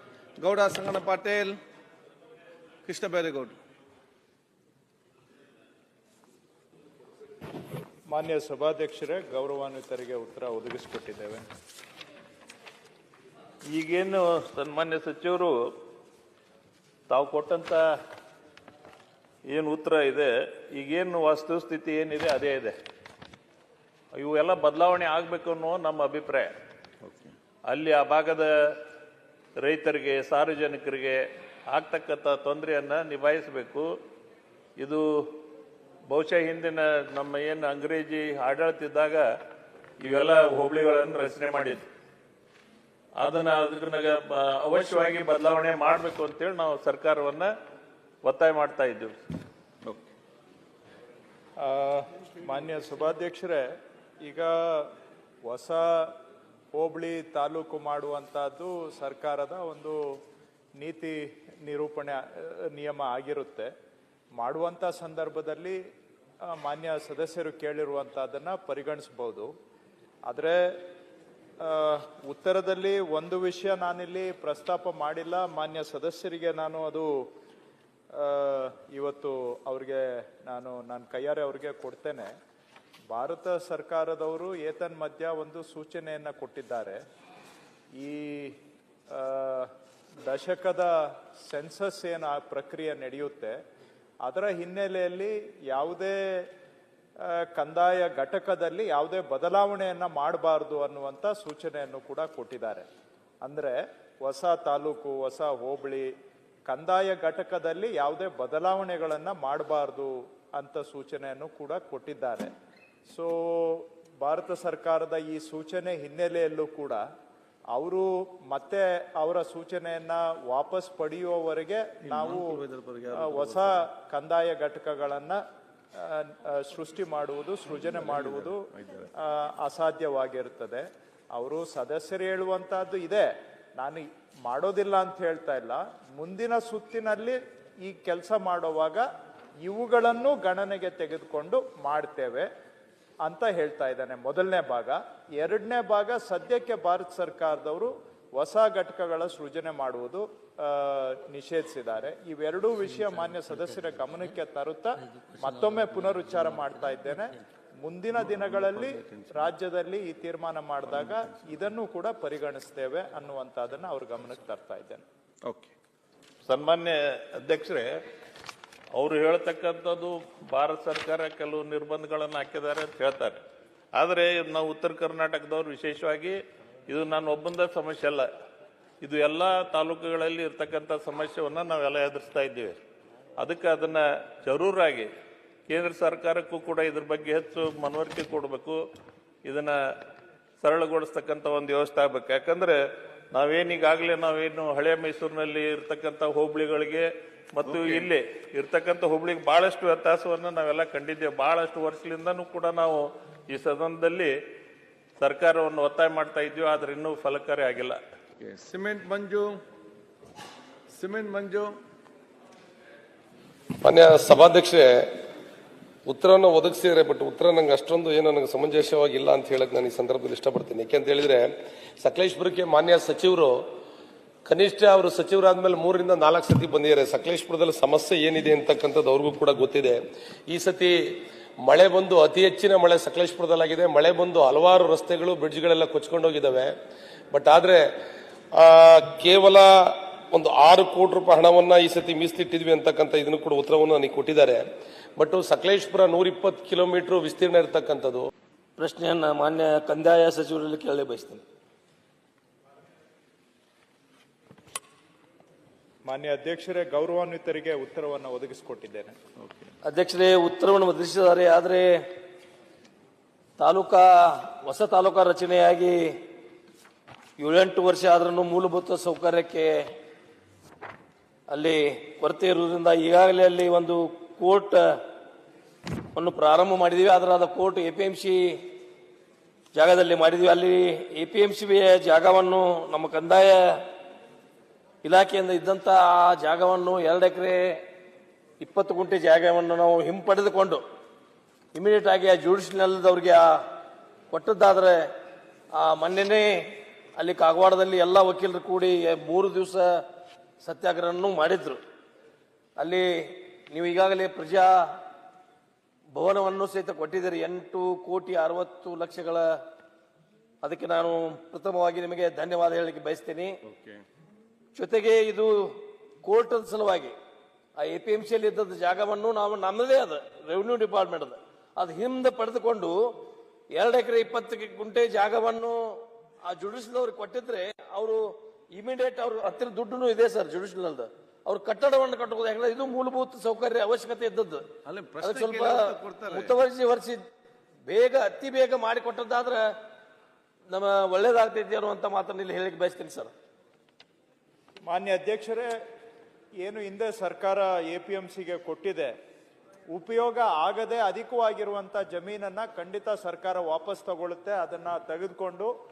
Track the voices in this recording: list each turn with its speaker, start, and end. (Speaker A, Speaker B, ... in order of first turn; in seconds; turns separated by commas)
Speaker A: 0.4-1.6, Speaker A: 2.9-3.6, Speaker B: 8.1-11.4, Speaker C: 13.7-15.6, Speaker C: 17.1-17.8, Speaker C: 19.5-22.8, Speaker C: 24.1-26.5, Speaker A: 27.0-27.3, Speaker C: 27.7-28.8, Speaker C: 29.6-33.9, Speaker C: 34.8-35.4, Speaker C: 36.1-39.2, Speaker C: 40.0-41.8, Speaker C: 43.2-47.5, Speaker C: 48.2-49.2, Speaker B: 51.6-53.6, Speaker B: 54.2-54.9, Speaker B: 55.4-56.1, Speaker B: 56.7-60.0, Speaker B: 60.8-63.7, Speaker B: 64.3-65.8, Speaker B: 66.5-69.5, Speaker B: 70.2-70.5, Speaker B: 71.6-77.2, Speaker B: 78.1-82.3, Speaker B: 83.1-87.0, Speaker B: 88.0-88.6, Speaker B: 89.1-89.7, Speaker B: 90.2-90.9, Speaker B: 91.5-93.5, Speaker B: 94.2-96.4, Speaker B: 97.5-102.8, Speaker B: 103.4-106.1, Speaker B: 106.7-112.5, Speaker B: 113.1-117.0, Speaker B: 117.7-125.4, Speaker A: 122.1-123.6, Speaker B: 126.0-128.7, Speaker A: 128.0-129.1, Speaker B: 129.2-139.0, Speaker B: 139.6-142.5, Speaker B: 143.2-165.0, Speaker A: 158.2-159.3, Speaker A: 165.4-165.7, Speaker C: 166.4-168.0, Speaker C: 168.9-173.4, Speaker C: 173.9-176.4, Speaker C: 176.9-178.3, Speaker C: 179.0-182.8, Speaker C: 183.4-185.1, Speaker C: 185.7-188.8, Speaker C: 189.4-189.8, Speaker C: 190.6-192.8, Speaker C: 193.3-204.3, Speaker A: 197.7-198.1, Speaker C: 205.2-208.0, Speaker A: 208.4-209.6, Speaker A: 210.9-211.7, Speaker D: 213.8-215.2, Speaker D: 216.1-221.5, Speaker D: 222.0-223.6, Speaker D: 224.4-230.9, Speaker D: 231.6-236.7, Speaker D: 237.3-237.9, Speaker D: 238.6-244.6, Speaker D: 245.2-248.3, Speaker E: 248.8-251.4, Speaker B: 256.0-259.1, Speaker E: 259.8-261.9, Speaker E: 263.6-266.1, Speaker E: 267.4-269.7, Speaker E: 271.5-274.8, Speaker E: 276.1-278.7, Speaker E: 279.7-283.8, Speaker E: 285.0-287.8, Speaker E: 288.6-290.8, Speaker E: 291.7-293.5, Speaker E: 294.3-295.1, Speaker E: 295.7-296.5, Speaker E: 297.1-299.9, Speaker E: 300.6-301.8, Speaker E: 302.8-304.8, Speaker E: 306.1-309.4, Speaker E: 310.6-313.6, Speaker A: 313.7-314.0, Speaker E: 314.7-317.1, Speaker E: 317.8-323.2, Speaker E: 323.7-334.7, Speaker A: 334.8-336.6, Speaker E: 335.2-337.2, Speaker E: 337.9-339.6, Speaker E: 340.7-343.3, Speaker B: 344.9-345.7, Speaker B: 346.6-349.1, Speaker B: 349.9-355.7